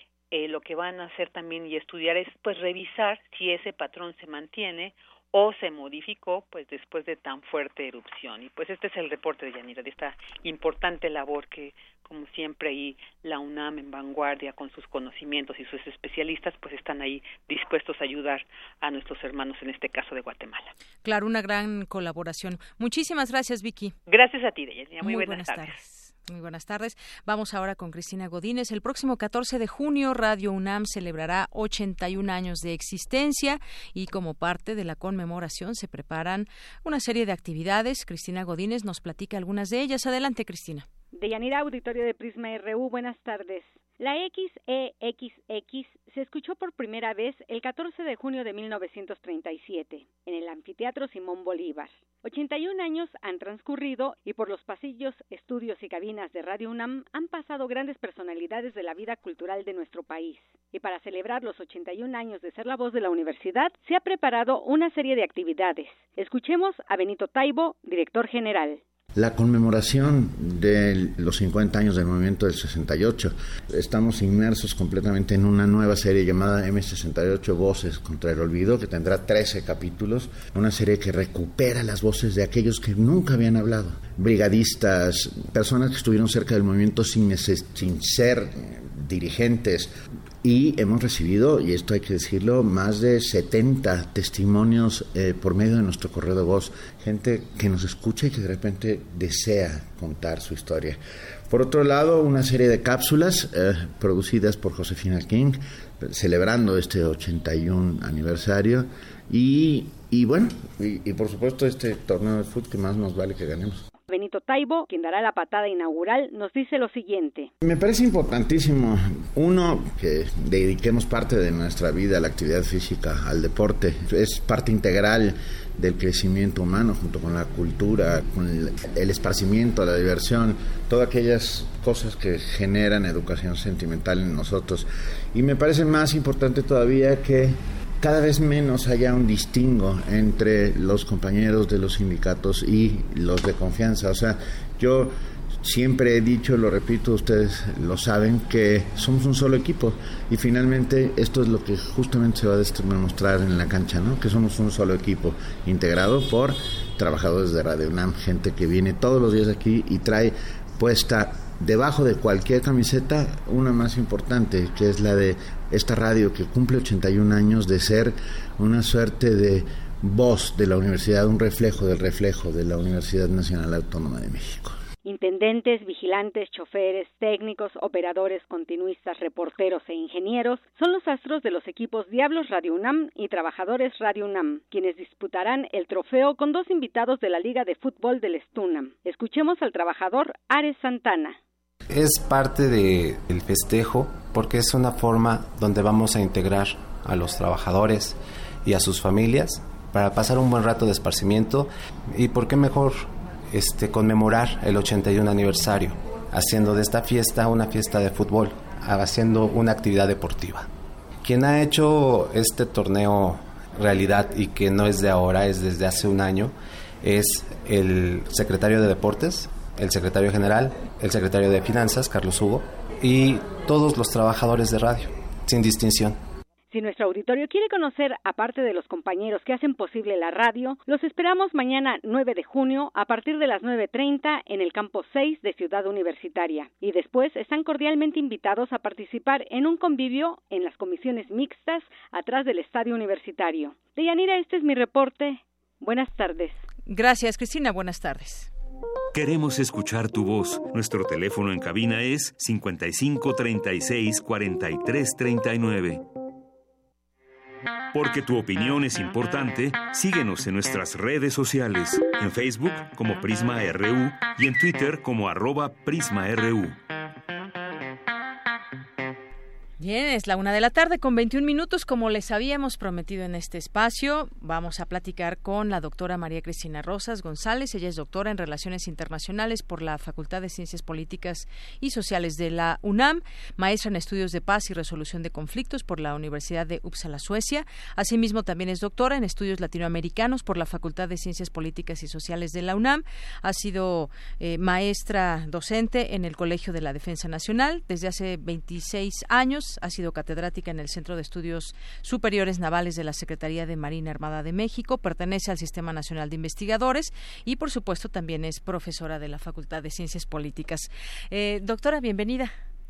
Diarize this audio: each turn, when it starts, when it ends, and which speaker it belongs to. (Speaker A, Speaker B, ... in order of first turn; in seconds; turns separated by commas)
Speaker A: 0.3-20.7, Speaker B: 21.0-23.9, Speaker A: 24.1-25.8, Speaker B: 25.0-40.9, Speaker C: 41.1-68.8, Speaker D: 69.1-89.9, Speaker D: 90.4-113.8, Speaker C: 114.1-117.5, Speaker D: 117.6-174.8, Speaker C: 175.0-191.4, Speaker E: 191.9-210.7, Speaker E: 211.2-226.2, Speaker C: 226.7-246.6, Speaker B: 246.9-248.5, Speaker F: 249.1-256.0, Speaker F: 257.9-266.8, Speaker B: 269.8-312.5